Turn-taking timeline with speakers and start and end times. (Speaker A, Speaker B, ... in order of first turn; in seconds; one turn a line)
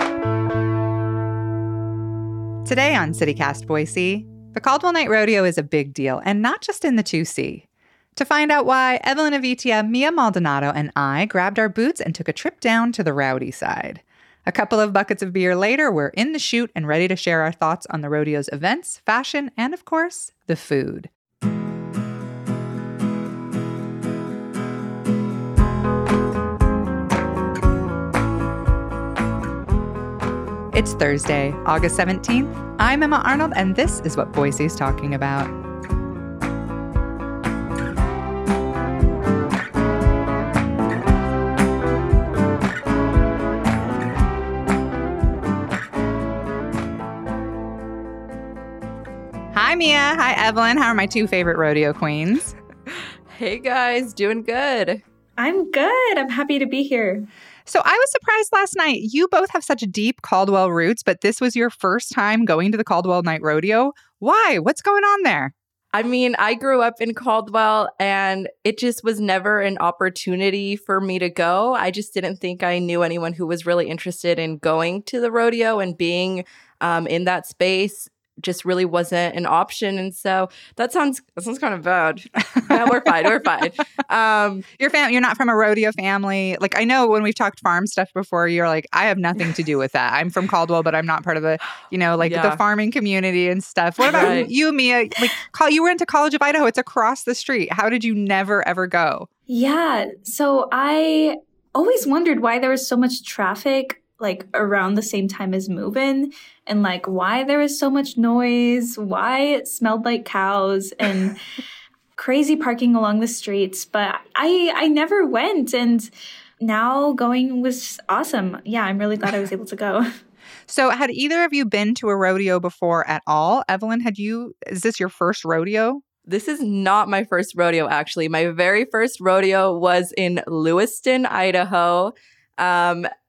Speaker A: 2.6-7.7
Speaker A: 8.2-21.1
Speaker A: 30.7-35.5
Speaker A: 49.5-52.5
Speaker B: 53.3-55.0
Speaker C: 55.4-57.3
Speaker A: 57.7-65.5
Speaker B: 65.9-84.7
Speaker A: 84.8-99.3
Speaker B: 92.2-92.6
Speaker B: 94.0-94.5
Speaker C: 99.5-111.3
Speaker C: 112.2-116.1
Speaker C: 116.6-120.0
Speaker A: 120.7-126.0
Speaker B: 126.3-133.1